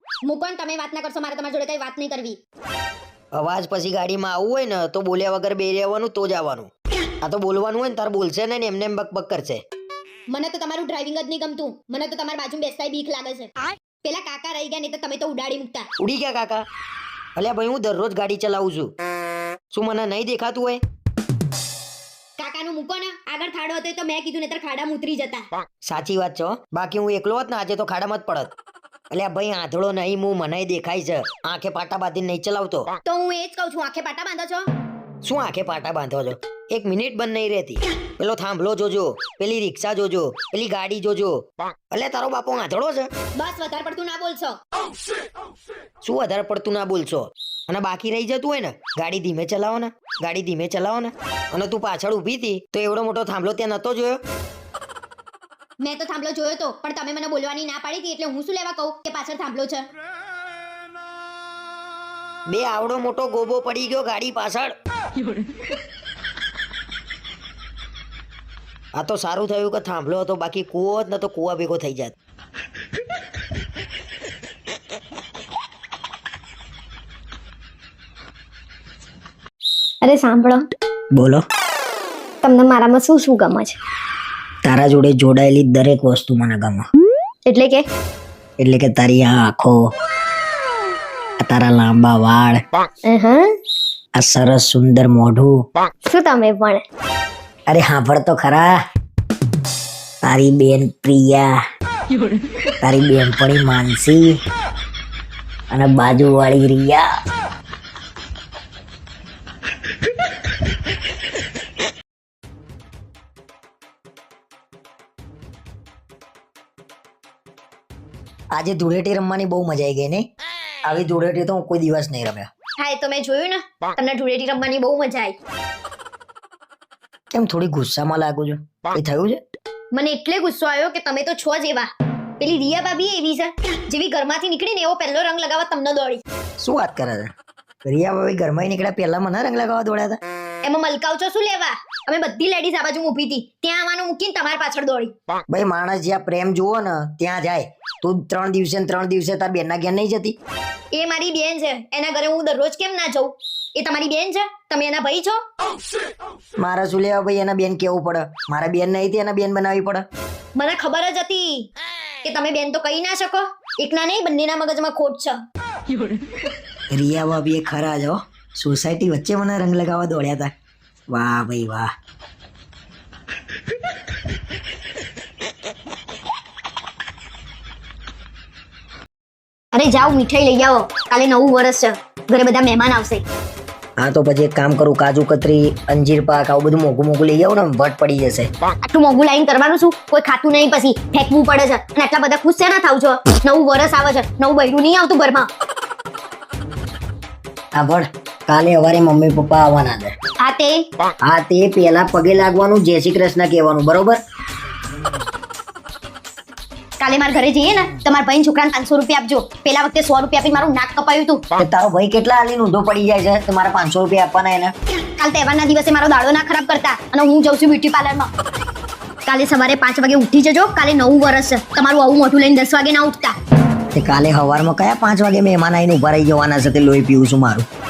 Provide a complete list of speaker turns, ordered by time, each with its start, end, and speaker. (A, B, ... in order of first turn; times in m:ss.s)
0:00.2-0:02.4 A
0:03.3-0:06.7 B
0:07.2-0:09.6 B
0:10.3-0:13.5 A
0:14.0-0:15.9 A
0:16.0-0:16.6 B
0:17.4-0:18.9 B
0:19.7-0:20.8 B
0:22.4-0:25.5 A
0:25.8-0:28.5 B
0:29.1-0:32.9 B
0:33.0-0:34.7 A
0:35.2-0:43.1 B
0:43.4-0:44.6 A
0:46.0-0:54.2 B
0:55.8-0:59.8 A
1:02.5-1:04.7 B
1:09.0-1:12.1 B
1:20.0-1:20.7 A
1:21.1-1:21.4 B
1:22.4-1:23.8 A
1:24.6-1:26.8 B
1:27.4-1:27.8 A
1:28.6-1:29.8 B
1:31.4-1:32.6 B
1:33.1-1:33.5 A
1:34.2-1:35.5 B
1:36.1-1:36.8 A
1:37.7-1:38.7 B
1:40.2-1:41.6 B
1:42.8-1:44.3 B
1:45.7-1:47.1 B
1:58.5-2:00.3 B
2:00.8-2:02.5 B
2:02.8-2:05.4 A
2:07.3-2:09.4 B
2:09.9-2:16.2 A
2:16.6-2:17.3 B
2:17.8-2:20.2 B
2:20.6-2:25.1 A
2:25.5-2:30.4 B
2:30.9-2:35.4 A
2:36.6-2:40.0 B
2:40.5-2:41.7 A
2:42.2-2:45.4 A
2:46.9-2:50.5 B
2:51.1-2:51.9 B
2:59.7-3:03.2 A
3:04.0-3:08.5 B
3:08.8-3:15.5 A
3:17.7-3:20.1 B
3:20.4-3:20.9 A
3:21.3-3:24.2 B
3:27.0-3:31.4 A
3:31.6-3:34.7 B
3:35.2-3:38.3 A
3:39.2-3:43.4 A
3:43.9-3:47.6 B